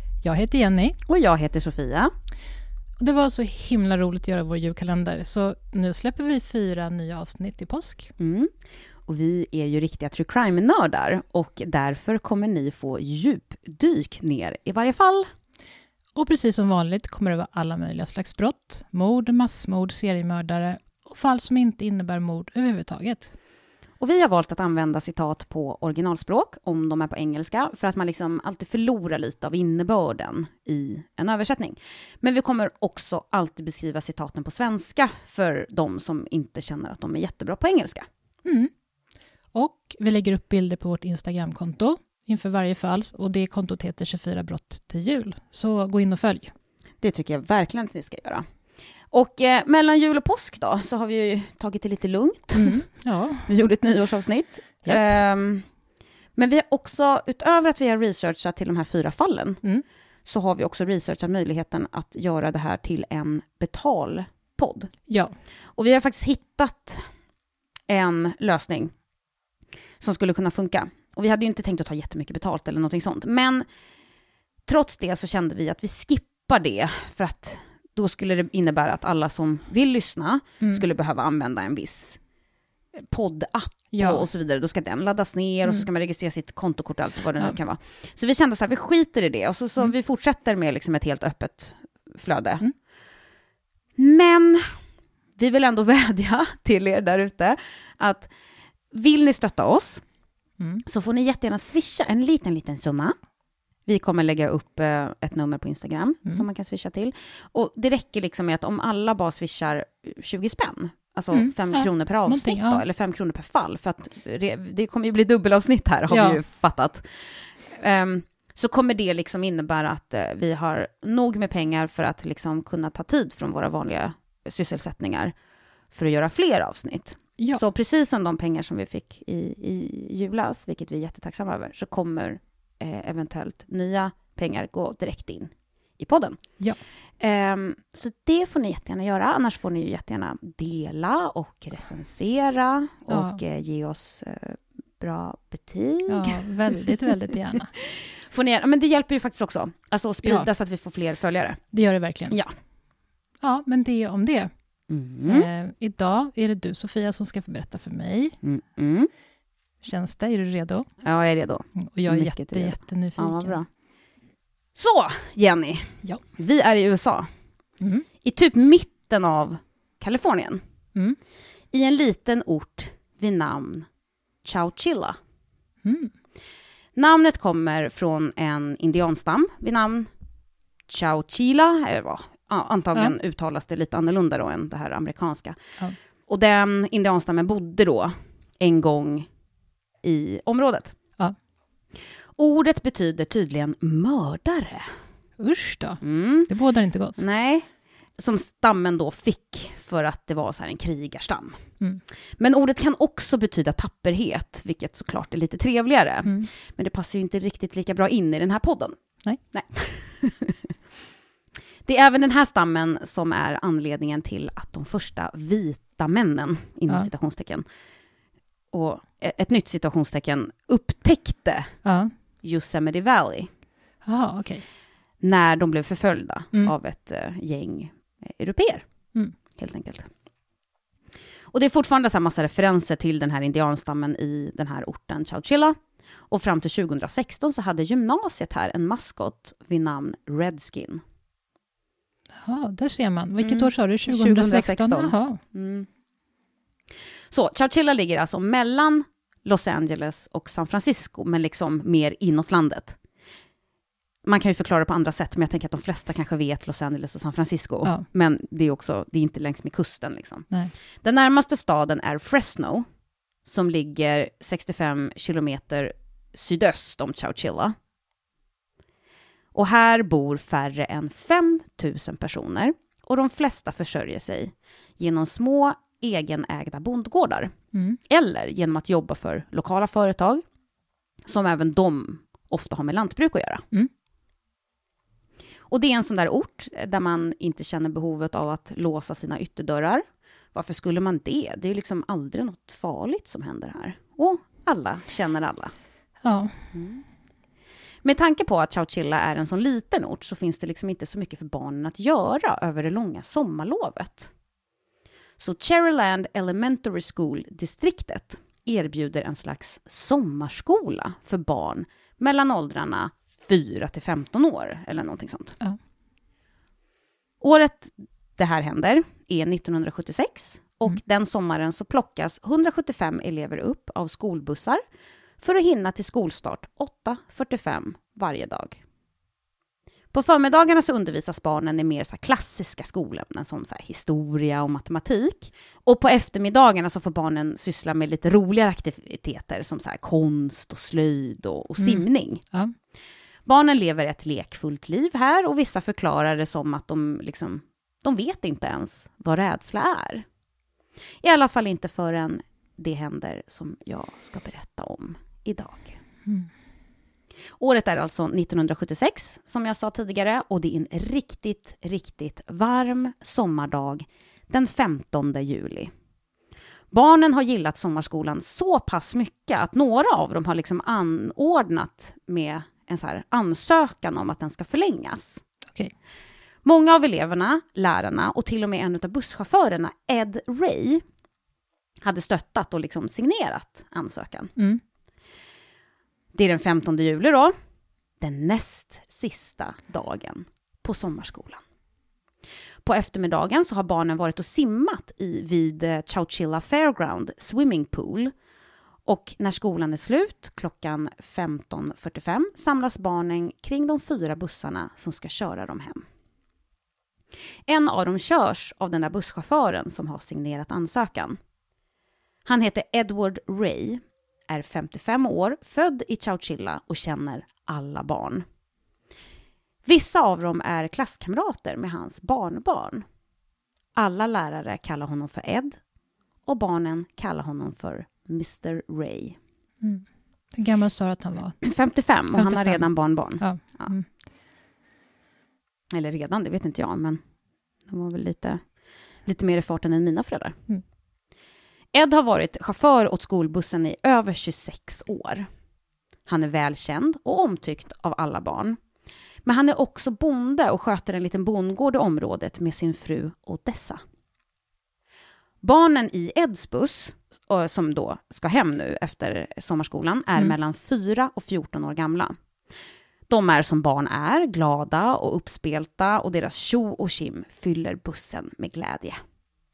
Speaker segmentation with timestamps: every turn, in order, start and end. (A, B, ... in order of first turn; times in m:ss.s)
0:00.2-0:01.0 A
0:01.0-0:02.1 B
0:03.0-0:08.1 A
0:08.2-0:08.5 B
0:09.0-0:15.3 B
0:16.2-0:23.3 A
0:24.0-0:38.1 B
0:38.4-0:38.7 A
0:39.5-0:46.5 A
0:47.0-0:48.4 B
0:49.1-0:52.9 B
0:52.6-0:53.5 A
0:53.4-0:55.6 B
0:54.8-0:55.1 A
0:56.4-0:59.6 B
1:00.2-1:04.9 B
1:05.1-1:05.3 A
1:05.8-1:07.1 B
1:07.9-1:08.9 B
1:10.0-1:13.6 B
1:14.6-1:22.2 B
1:22.9-1:32.6 B
1:23.9-1:24.2 A
1:34.0-1:34.8 B
1:35.4-1:38.3 B
1:38.9-1:40.0 B
1:40.8-1:43.2 B
1:43.8-2:05.3 B
1:51.3-1:52.8 A
1:56.1-1:56.4 A
2:05.9-2:16.6 B
2:17.2-2:26.4 B
2:23.1-2:23.4 A
2:26.1-2:27.7 A
2:28.0-2:31.6 B
2:30.2-2:30.5 A
2:31.7-2:32.4 A
2:33.4-2:34.5 A
2:34.9-2:35.5 B
2:35.2-2:38.4 A
2:38.4-2:39.1 B
2:39.8-2:40.9 A
2:41.0-2:43.7 B
2:41.8-2:43.6 A
2:44.8-2:47.3 B
2:47.8-2:48.0 A
2:48.2-2:50.6 B
2:51.7-2:53.9 B
2:54.4-2:55.2 B
2:55.8-2:56.1 A
2:57.0-3:00.1 B
3:00.9-3:05.6 B
3:06.3-3:09.3 B
3:10.0-3:10.9 B
3:12.4-3:14.9 B
3:15.4-3:17.2 A
3:16.0-3:16.5 B
3:17.2-3:17.7 B
3:18.2-3:21.6 B
3:22.4-3:29.0 B
3:26.2-3:26.5 A
3:29.5-3:30.7 B
3:31.8-3:37.6 B
3:38.7-3:41.7 B
3:41.8-3:42.1 A
3:42.4-3:43.5 B
3:44.0-3:44.6 A
3:45.2-3:48.8 B
3:49.5-3:50.1 B
3:51.5-3:55.8 B
3:56.3-4:01.0 B
4:02.4-4:05.4 A
4:03.4-4:05.9 B
4:07.3-4:13.0 B
4:14.2-4:22.8 B
4:23.4-4:27.8 B
4:29.5-4:37.5 B
4:37.7-4:38.0 A
4:38.1-4:40.4 B
4:41.3-4:43.6 B
4:45.7-4:55.7 B
4:56.2-4:56.6 A
4:56.7-4:57.0 B
4:58.0-5:04.3 B
5:05.4-5:15.6 B
5:17.4-5:24.8 B
5:25.4-5:28.8 B
5:30.1-5:42.4 B
5:41.8-5:42.7 A
5:43.4-5:50.2 B
5:51.2-5:56.0 B
5:57.6-6:05.9 B
6:06.9-6:15.4 B
6:16.6-6:21.0 B
6:22.0-6:24.5 B
6:26.3-6:27.5 B
6:28.2-6:31.6 B
6:32.8-6:38.3 B
6:39.0-6:46.0 B
6:47.7-6:51.4 B
6:52.4-6:58.4 B
6:59.8-7:03.0 B
7:04.0-7:05.8 B
7:06.4-7:09.4 B
7:09.8-7:11.7 A
7:11.6-7:13.9 B
7:12.3-7:14.0 A
7:15.9-7:17.2 B
7:17.9-7:18.6 B
7:19.2-7:20.6 B
7:21.9-7:25.5 B
7:26.2-7:28.8 B
7:29.4-7:34.0 B
7:35.6-7:42.4 B
7:43.3-7:49.2 B